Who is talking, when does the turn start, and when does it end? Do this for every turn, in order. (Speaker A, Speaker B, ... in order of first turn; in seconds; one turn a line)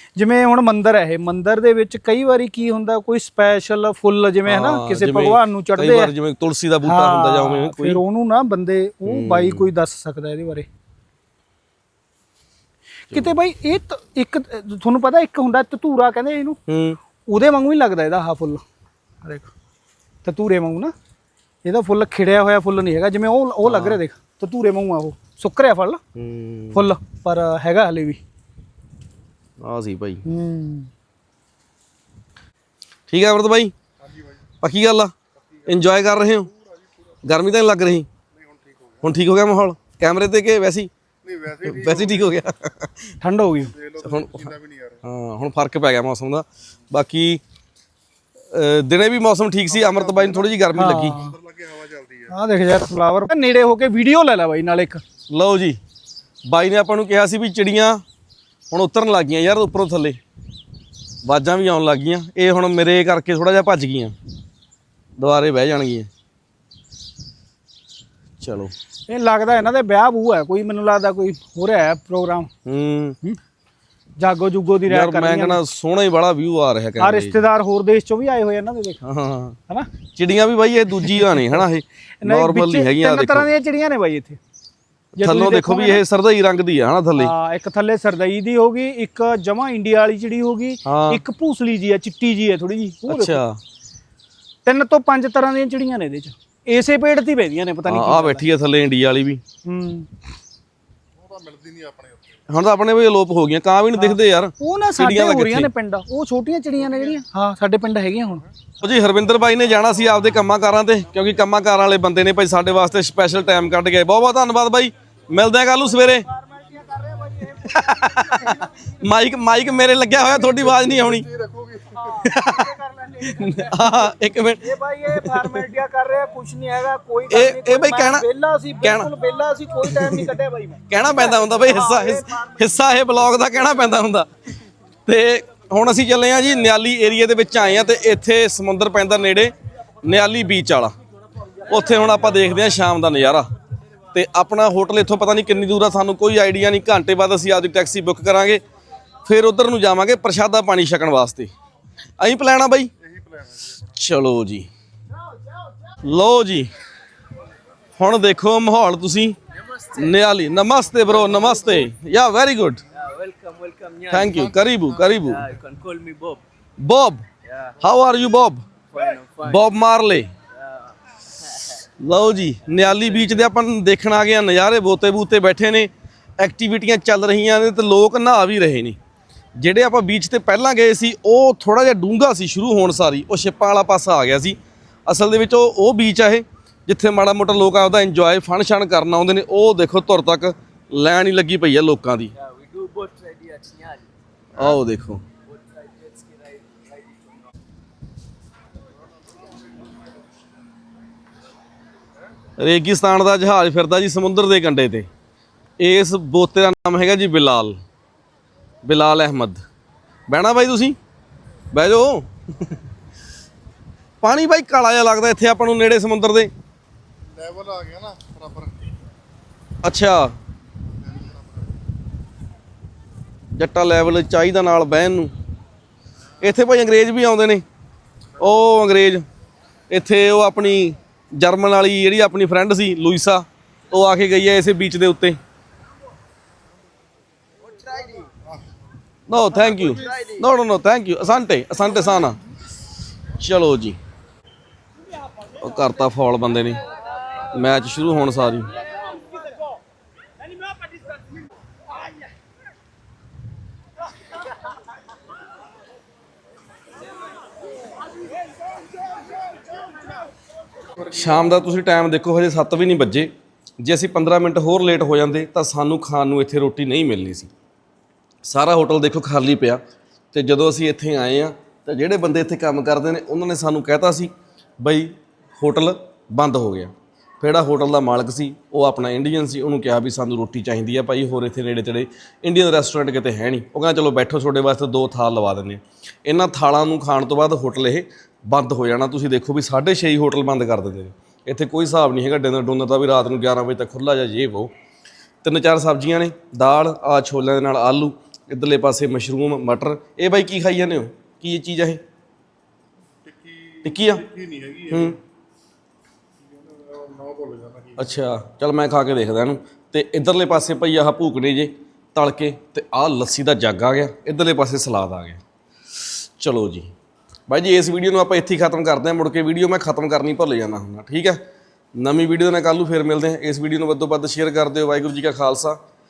Speaker A: 0.1-6.1
Speaker B: 4.5-8.0
Speaker A: 6.8-10.7
Speaker B: 9.1-9.7
Speaker A: 13.1-16.6
Speaker B: 16.7-17.0
Speaker A: 17.2-18.6
Speaker A: 19.2-19.5
Speaker A: 20.2-20.9
Speaker A: 21.6-26.0
Speaker B: 23.6-24.0
Speaker B: 26.1-26.9
Speaker A: 26.7-28.2
Speaker B: 29.6-30.2
Speaker A: 30.2-30.9
Speaker B: 33.1-33.7
Speaker B: 34.6-35.1
Speaker B: 35.7-36.5
Speaker B: 37.2-38.1
Speaker C: 38.4-39.0
Speaker B: 39.0-40.9
Speaker C: 41.2-42.1
Speaker B: 41.6-43.1
Speaker A: 43.2-43.7
Speaker C: 43.8-45.0
Speaker B: 44.0-47.4
Speaker B: 48.5-51.2
Speaker A: 50.7-51.4
Speaker C: 51.3-52.2
Speaker A: 52.3-55.0
Speaker B: 55.3-55.8
Speaker B: 56.5-58.0
Speaker B: 58.7-60.2
Speaker B: 61.2-64.1
Speaker B: 65.2-66.1
Speaker B: 68.4-68.7
Speaker A: 69.1-72.5
Speaker B: 72.6-73.2
Speaker A: 74.2-75.6
Speaker B: 74.9-77.4
Speaker A: 77.0-79.0
Speaker B: 79.0-79.6
Speaker B: 80.1-83.5
Speaker A: 81.0-81.3
Speaker A: 82.2-84.4
Speaker B: 85.2-87.3
Speaker A: 85.2-86.0
Speaker A: 87.2-93.4
Speaker B: 90.8-91.2
Speaker B: 93.1-93.6
Speaker A: 94.6-98.5
Speaker B: 97.8-99.4
Speaker A: 99.6-100.1
Speaker C: 101.2-102.4
Speaker B: 102.5-105.7
Speaker A: 104.0-108.5
Speaker B: 108.8-116.3
Speaker A: 115.9-118.9
Speaker B: 117.5-121.3
Speaker C: 121.3-122.0
Speaker A: 121.9-124.0
Speaker B: 122.2-125.7
Speaker A: 124.6-132.7
Speaker B: 127.3-128.3
Speaker B: 128.8-129.1
Speaker B: 129.8-130.3
Speaker B: 130.9-134.3
Speaker B: 135.1-139.5
Speaker B: 140.0-140.9
Speaker B: 141.7-143.4
Speaker B: 144.1-148.6
Speaker B: 149.2-151.5
Speaker B: 152.2-152.9
Speaker C: 153.2-153.6
Speaker B: 153.9-154.7
Speaker B: 156.0-156.7
Speaker B: 158.0-159.3
Speaker B: 159.9-162.8
Speaker D: 163.0-164.5
Speaker B: 164.1-165.5
Speaker D: 165.4-166.4
Speaker B: 166.8-167.2
Speaker B: 167.8-168.6
Speaker D: 168.9-169.6
Speaker B: 169.4-170.3
Speaker B: 172.0-179.0
Speaker B: 179.6-192.3
Speaker D: 192.4-194.1
Speaker B: 194.5-195.2
Speaker D: 195.5-197.4
Speaker B: 202.6-205.1
Speaker B: 205.8-207.8
Speaker B: 208.8-209.6
Speaker B: 210.3-211.0
Speaker B: 211.7-212.8
Speaker B: 214.2-216.5
Speaker C: 217.3-218.9
Speaker B: 219.8-220.3
Speaker C: 221.1-221.4
Speaker B: 223.6-225.3
Speaker B: 226.4-227.6
Speaker B: 228.4-229.2
Speaker B: 229.9-235.4
Speaker D: 237.8-238.3
Speaker B: 239.3-242.4
Speaker B: 243.4-244.0
Speaker B: 245.6-246.8
Speaker B: 247.5-248.7
Speaker B: 261.1-263.3
Speaker B: 263.8-267.5
Speaker B: 268.4-269.8
Speaker B: 270.3-274.3
Speaker B: 274.8-294.7
Speaker B: 295.4-302.0
Speaker C: 303.2-305.0
Speaker B: 303.8-304.2
Speaker B: 304.9-305.2
Speaker C: 306.6-308.0
Speaker B: 308.0-315.4
Speaker B: 315.9-316.9
Speaker B: 317.5-321.4
Speaker B: 321.9-325.8